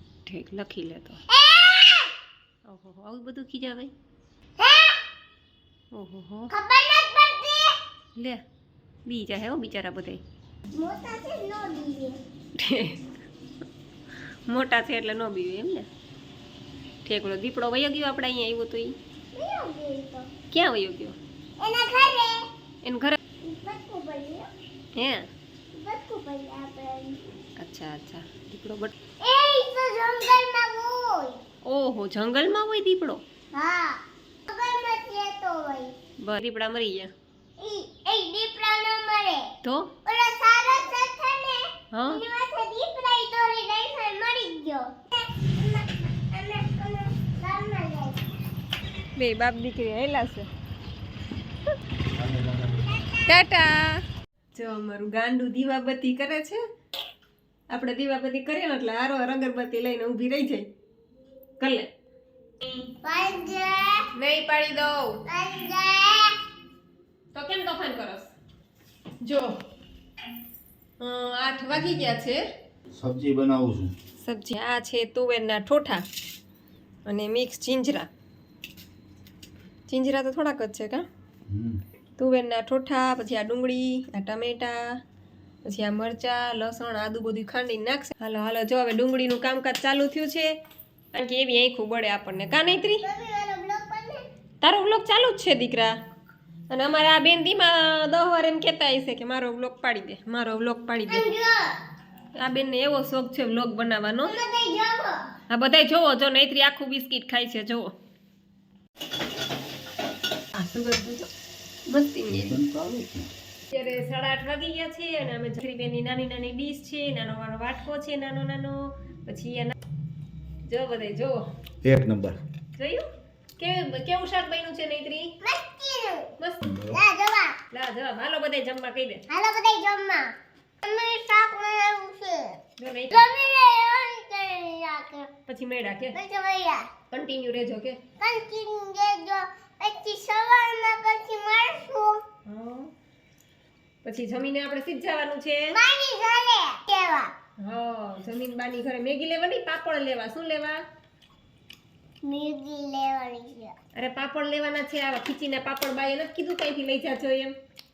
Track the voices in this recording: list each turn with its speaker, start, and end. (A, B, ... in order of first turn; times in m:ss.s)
0:00.3-0:01.2 A
0:01.3-0:02.1 B
0:02.7-0:03.9 A
0:04.6-0:05.0 B
0:05.9-0:06.5 A
0:06.5-0:07.8 B
0:08.2-0:08.4 A
0:09.1-0:10.2 A
0:10.7-0:12.2 B
0:12.6-0:13.1 A
0:14.5-0:15.9 A
0:17.0-0:19.0 A
0:19.3-0:20.3 B
0:20.5-0:21.2 A
0:21.6-0:22.5 B
0:22.8-0:23.2 A
0:23.4-0:24.5 B
0:25.0-0:25.3 A
0:25.7-0:27.2 B
0:27.6-0:28.9 A
0:29.2-0:31.4 B
0:31.6-0:33.2 A
0:33.5-0:35.9 B
0:36.2-0:37.1 A
0:37.6-0:39.5 B
0:39.6-0:39.9 A
0:40.0-0:48.2 B
0:41.9-0:42.2 A
0:49.2-0:50.5 A
0:52.2-0:52.6 C
0:52.9-0:53.3 B
0:53.3-0:54.0 A
0:54.6-0:56.6 A
0:57.7-1:00.6 A
1:01.6-1:01.9 A
1:02.6-1:02.9 A
1:03.0-1:04.1 B
1:04.2-1:05.2 A
1:05.3-1:06.4 B
1:07.3-1:08.3 A
1:09.2-1:09.6 A
1:11.0-1:12.4 A
1:12.9-1:13.9 C
1:14.2-1:16.0 A
1:17.1-1:18.1 A
1:19.9-1:21.0 A
1:21.5-1:21.8 C
1:22.2-1:25.0 A
1:25.6-1:30.5 A
1:31.1-1:33.0 A
1:33.0-1:34.2 B
1:34.6-1:35.9 A
1:36.7-1:41.3 A
1:41.1-1:41.7 B
1:42.4-1:44.4 A
1:44.2-1:45.3 B
1:45.5-1:47.9 A
1:50.5-1:51.3 A
1:51.9-1:52.6 A
1:52.3-1:53.3 C
1:53.7-1:59.8 A
2:00.7-2:01.4 A
2:01.8-2:02.4 C
2:02.8-2:03.1 A
2:03.6-2:05.3 A
2:05.4-2:06.3 B
2:06.6-2:07.0 C
2:06.9-2:07.6 B
2:07.7-2:09.2 A
2:09.3-2:10.3 B
2:10.8-2:12.6 B
2:12.8-2:13.2 A
2:13.1-2:15.3 B
2:15.5-2:16.2 A
2:16.2-2:16.9 B
2:17.1-2:18.0 A
2:18.2-2:22.2 B
2:22.5-2:22.9 A
2:24.0-2:25.7 A
2:25.7-2:27.3 B
2:27.6-2:30.8 A
2:32.2-2:33.7 B
2:34.0-2:37.5 A